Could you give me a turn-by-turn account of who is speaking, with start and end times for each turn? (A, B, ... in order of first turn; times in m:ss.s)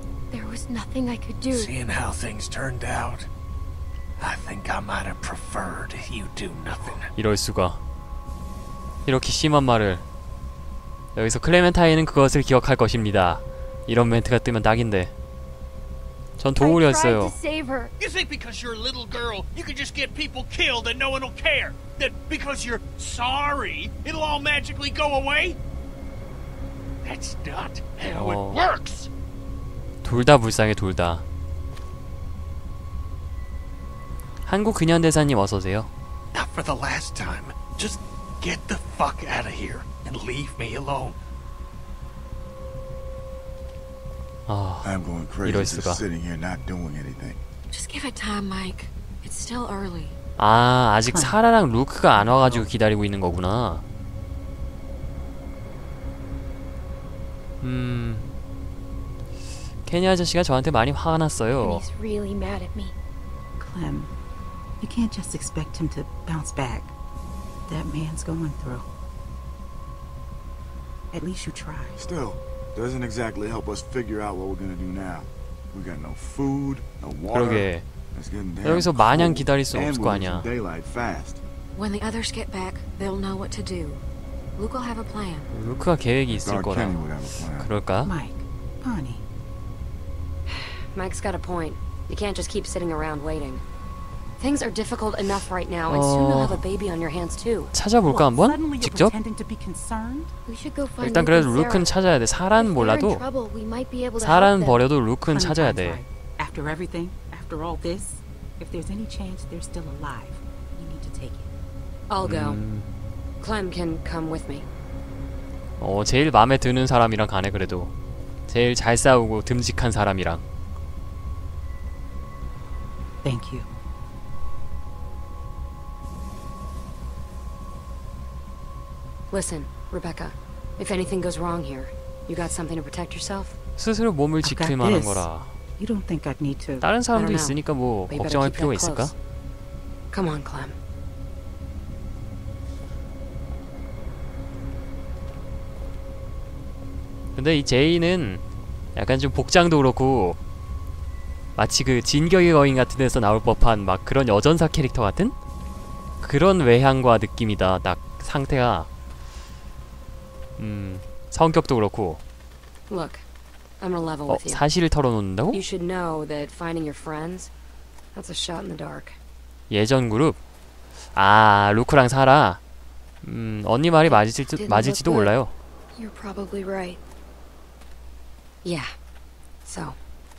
0:00.3-0:01.7 A
0:01.5-0:03.3 B
0:04.2-0:07.1 B
0:07.1-0:07.8 C
0:09.0-0:10.0 C
0:11.1-0:15.1 C
0:16.4-0:17.4 C
0:16.6-0:17.9 A
0:18.0-0:25.6 B
0:27.0-0:29.1 B
0:28.1-0:28.6 C
0:30.0-0:31.2 C
0:34.4-0:35.9 C
0:36.3-0:41.2 B
0:44.5-0:46.0 C
0:44.8-0:47.4 D
0:47.7-0:50.2 E
0:50.4-0:53.8 C
0:51.0-0:51.4 F
0:52.1-0:52.7 F
0:57.6-0:58.3 C
0:59.8-1:01.8 C
1:01.6-1:02.9 A
1:03.6-1:04.1 F
1:04.8-1:06.9 F
1:07.7-1:08.8 F
1:11.1-1:12.0 F
1:12.0-1:21.4 D
1:17.3-1:17.8 C
1:18.6-1:20.5 C
1:21.7-1:24.0 E
1:24.6-1:25.5 E
1:25.5-1:27.0 C
1:26.3-1:27.7 D
1:27.6-1:28.1 C
1:28.0-1:29.2 F
1:30.5-1:33.6 G
1:34.4-1:37.7 G
1:35.9-1:36.6 C
1:37.7-1:39.1 C
1:38.0-1:40.3 F
1:40.4-1:41.9 A
1:41.0-1:43.2 C
1:42.6-1:44.8 A
1:44.2-1:46.0 C
1:45.2-1:51.5 F
1:52.1-1:52.6 G
1:52.2-1:52.9 C
1:53.4-1:54.7 G
1:55.8-1:57.9 C
1:58.5-2:00.4 C
2:03.2-2:03.7 F
2:09.3-2:13.6 G
2:13.8-2:15.5 C
2:14.4-2:15.3 F
2:15.8-2:16.9 F
2:16.8-2:19.1 C
2:17.1-2:19.1 G
2:20.1-2:20.8 G
2:27.4-2:28.4 C
2:28.9-2:30.4 C
2:31.6-2:35.3 C
2:36.2-2:38.9 C
2:40.6-2:42.2 C
2:42.9-2:43.2 G
2:43.8-2:44.6 G
2:44.3-2:45.6 C
2:45.5-2:47.5 G
2:48.1-2:49.2 G
2:49.7-2:50.4 C
2:51.1-2:52.6 C
2:53.2-2:55.5 C
2:54.1-2:55.3 G
2:56.0-2:57.0 A
2:58.6-2:58.9 G
2:59.6-3:00.0 G